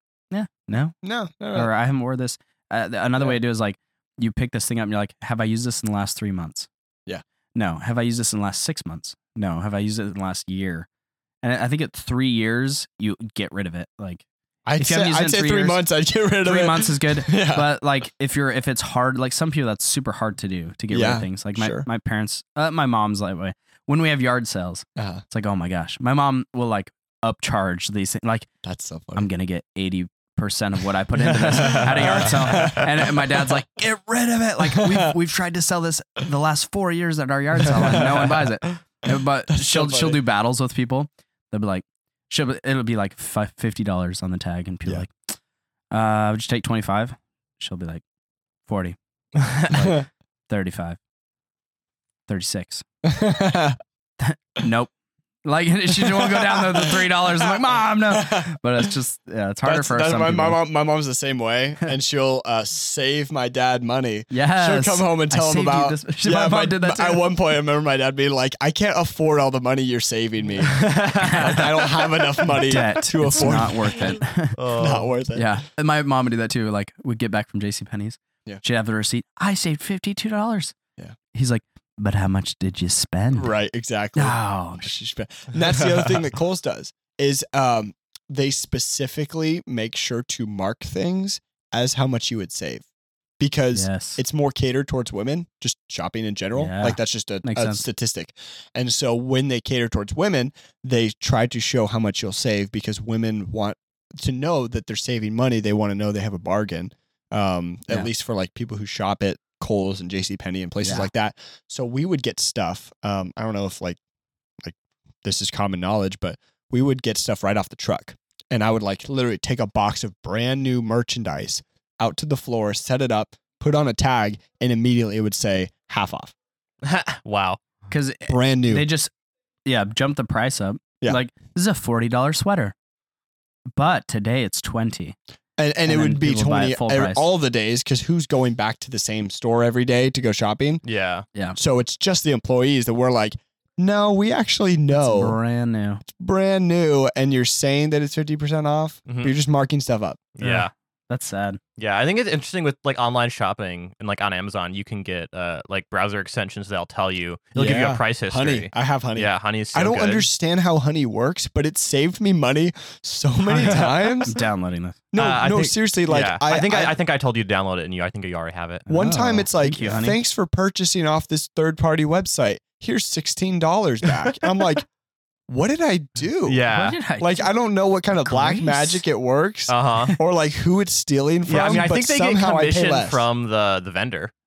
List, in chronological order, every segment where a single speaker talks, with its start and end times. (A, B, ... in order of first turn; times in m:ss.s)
0:00.3-0:01.0 A
0:01.0-0:01.7 B
0:01.5-0:06.7 A
0:07.6-0:10.9 A
0:11.4-0:14.2 A
0:14.6-0:17.7 B
0:14.8-0:15.8 A
0:16.4-0:28.5 A
0:20.9-0:21.9 B
0:25.0-0:25.2 B
0:28.6-0:29.3 B
0:29.1-0:45.1 A
0:31.2-0:33.5 B
0:34.6-0:35.1 B
0:37.6-0:38.8 B
0:39.5-0:40.2 B
0:45.9-0:48.0 A
0:48.6-0:49.0 A
0:49.6-0:51.0 A
0:52.3-0:52.8 A
0:53.0-0:53.8 B
0:54.2-0:54.9 A
0:55.4-1:00.6 A
0:55.9-0:58.6 B
0:59.6-1:14.0 B
1:04.3-1:07.3 A
1:10.6-1:12.1 C
1:11.2-1:11.5 A
1:12.5-1:14.6 A
1:14.5-1:15.1 C
1:14.8-1:15.6 B
1:15.3-1:20.8 A
1:21.3-1:23.5 A
1:23.3-1:32.8 B
1:24.1-1:24.9 A
1:33.4-1:54.0 B
1:33.7-1:34.2 A
1:36.6-1:37.9 A
1:50.8-1:51.1 A
1:54.6-2:06.3 B
2:06.8-2:07.6 C
2:07.9-2:09.1 A
2:08.3-2:08.8 B
2:09.6-2:12.7 A
2:13.7-2:15.2 A
2:15.6-2:20.8 B
2:15.8-2:17.3 A
2:20.8-2:21.2 C
2:21.6-2:25.4 B
2:24.9-2:26.0 A
2:26.0-2:30.2 B
2:29.1-2:29.3 C
2:30.3-2:30.7 C
2:30.4-2:31.6 A
2:31.8-2:40.3 C
2:37.6-2:44.3 B
2:43.5-2:45.0 A
2:43.6-2:44.2 C
2:45.1-2:47.0 B
2:45.2-2:48.9 C
2:48.9-2:50.2 A
2:48.9-2:54.8 B
2:55.5-3:03.2 B
2:56.4-2:57.0 C
2:56.7-2:57.5 A
2:58.1-2:59.0 A
2:59.7-3:00.2 C
3:01.5-3:04.3 C